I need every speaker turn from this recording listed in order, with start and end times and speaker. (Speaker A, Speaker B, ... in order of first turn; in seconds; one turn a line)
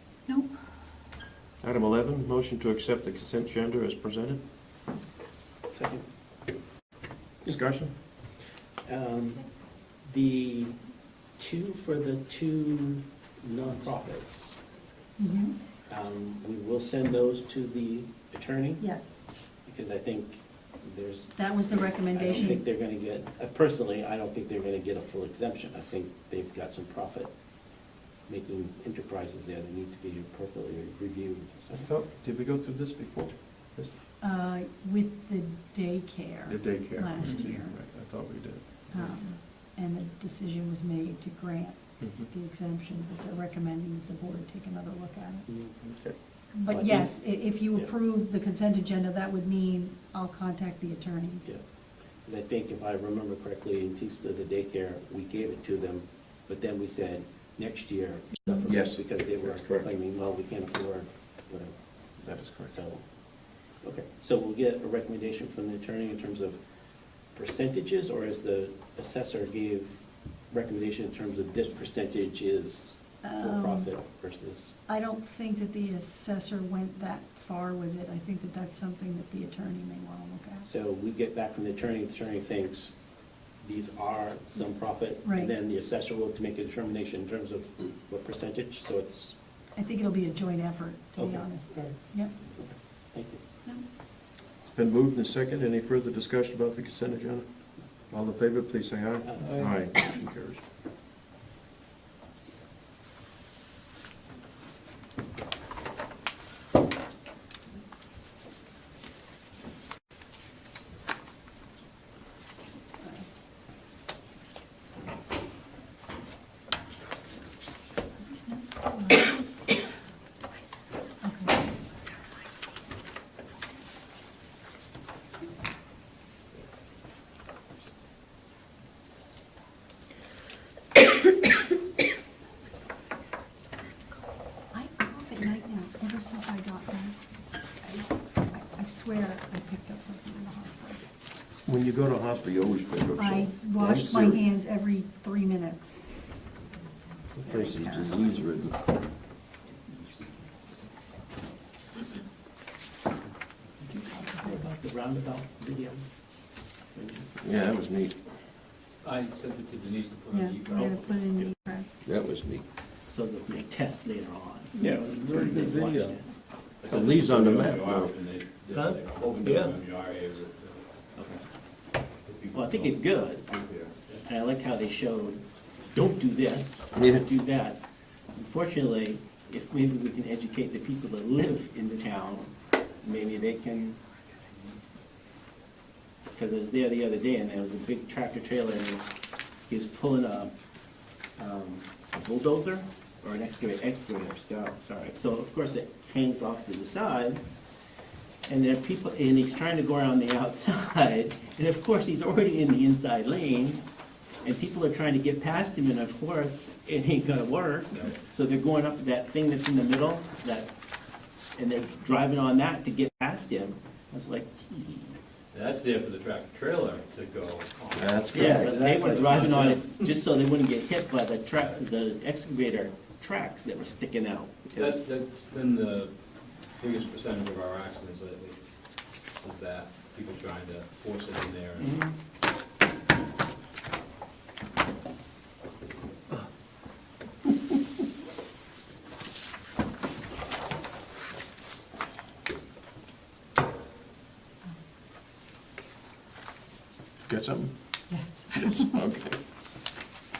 Speaker A: 0.3-0.6
Speaker B: 1.6-4.4
Speaker C: 5.7-6.0
Speaker B: 7.5-7.9
Speaker C: 8.1-10.8
Speaker C: 11.4-14.6
Speaker A: 15.2-15.6
Speaker C: 15.9-18.8
Speaker C: 19.6-27.3
Speaker A: 21.4-22.6
Speaker C: 28.2-31.9
Speaker B: 31.7-33.9
Speaker A: 34.2-37.7
Speaker B: 36.5-39.1
Speaker A: 38.9-45.5
Speaker B: 42.0-42.3
Speaker B: 45.5-46.2
Speaker A: 46.5-51.5
Speaker C: 46.7-47.9
Speaker C: 52.2-74.7
Speaker B: 58.7-59.9
Speaker B: 62.2-62.7
Speaker A: 73.2-73.9
Speaker A: 74.9-80.7
Speaker C: 80.7-83.0
Speaker C: 83.6-89.4
Speaker A: 85.2-85.5
Speaker A: 89.8-92.3
Speaker C: 91.2-91.9
Speaker C: 92.6-93.4
Speaker B: 94.6-97.5
Speaker B: 98.1-100.6
Speaker C: 99.2-99.7
Speaker D: 99.4-99.7
Speaker A: 113.0-113.3
Speaker A: 118.3-119.5
Speaker A: 121.2-121.5
Speaker A: 134.7-137.2
Speaker A: 137.8-141.1
Speaker B: 141.7-144.4
Speaker A: 143.2-146.1
Speaker B: 147.4-148.8
Speaker A: 147.4-148.3
Speaker A: 153.8-154.6
Speaker C: 154.4-156.1
Speaker C: 156.9-157.4
Speaker B: 157.4-158.2
Speaker D: 159.0-161.1
Speaker A: 160.3-161.9
Speaker C: 161.2-161.5
Speaker B: 162.0-162.7
Speaker C: 163.1-166.3
Speaker B: 164.8-166.2
Speaker D: 166.8-170.8
Speaker B: 166.8-168.1
Speaker C: 168.7-169.7
Speaker C: 171.2-171.4
Speaker D: 172.2-174.2
Speaker C: 172.5-173.5
Speaker C: 174.2-184.0
Speaker B: 176.9-177.2
Speaker C: 186.3-190.5
Speaker C: 191.4-197.4
Speaker C: 198.5-203.8
Speaker C: 204.4-210.7
Speaker C: 211.5-215.2
Speaker D: 215.5-220.1
Speaker B: 217.9-219.2
Speaker C: 218.3-225.0
Speaker D: 224.8-226.2
Speaker D: 226.8-228.6
Speaker D: 229.4-231.9
Speaker C: 231.8-232.1
Speaker B: 247.2-249.4
Speaker A: 248.1-248.9